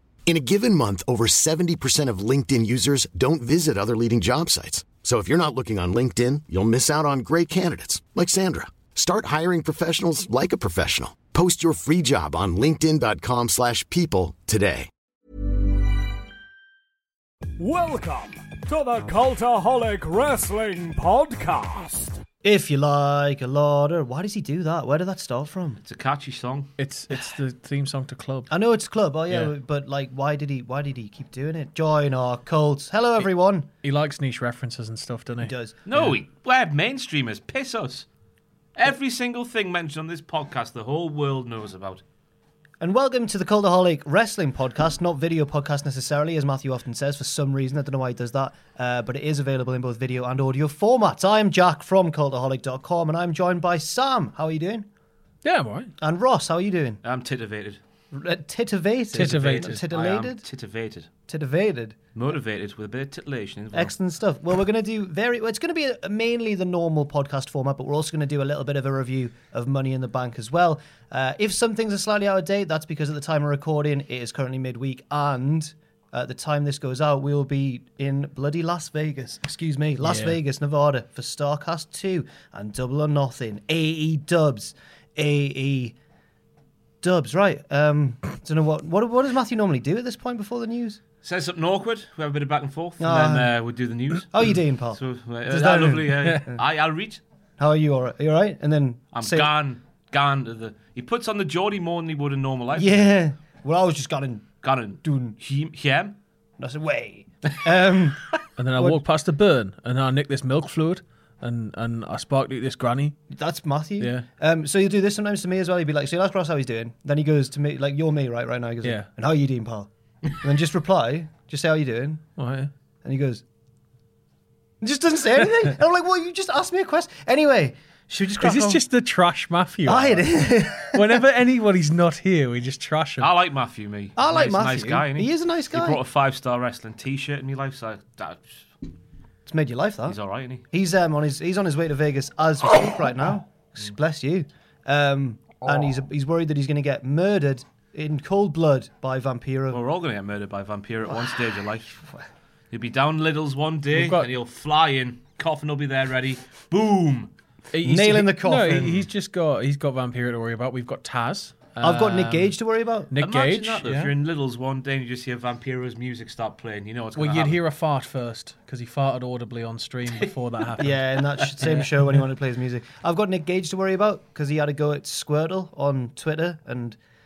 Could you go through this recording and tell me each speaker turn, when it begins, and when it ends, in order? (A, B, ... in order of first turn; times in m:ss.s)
0:00.2-0:14.9 A
0:17.6-0:22.2 B
0:22.4-0:25.8 C
0:25.8-0:26.7 D
0:26.8-0:28.5 E
0:28.5-0:33.7 C
0:29.3-0:29.5 E
0:33.8-0:36.2 E
0:35.4-0:35.8 C
0:35.9-0:38.0 D
0:38.8-0:42.0 D
0:42.8-0:54.9 C
0:55.4-0:55.9 E
0:56.0-0:57.0 C
0:57.0-0:57.8 D
0:58.1-1:00.4 C
0:59.1-0:59.8 E
0:59.2-1:01.1 D
1:01.3-1:02.0 C
1:02.1-1:03.9 D
1:03.7-1:26.0 C
1:20.0-1:20.4 E
1:27.0-1:31.0 C
1:31.2-1:37.2 D
1:33.0-1:33.5 C
1:34.3-1:36.6 C
1:37.6-1:39.5 C
1:39.1-1:43.1 D
1:42.7-1:45.4 C
1:44.6-1:46.2 D
1:46.6-1:49.0 C
1:48.6-1:53.2 E
1:53.3-2:02.2 C
1:54.0-1:54.3 E
1:58.8-1:59.1 E
2:02.4-2:02.7 E
2:03.0-2:03.4 C
2:04.8-2:08.8 C
2:08.4-2:13.3 E
2:09.8-2:11.2 C
2:13.2-2:18.6 D
2:14.2-2:16.0 C
2:19.4-2:20.2 C
2:20.0-2:20.6 D
2:20.7-2:29.8 C
2:29.7-2:31.9 D
2:31.1-2:32.2 C
2:32.7-2:37.3 D
2:33.9-2:34.3 E
2:37.7-2:42.5 E
2:37.8-2:39.0 C
2:41.8-2:43.1 C
2:43.1-2:44.1 E
2:43.2-2:47.6 D
2:47.2-2:51.0 E
2:50.8-2:57.0 C
2:51.6-2:51.9 E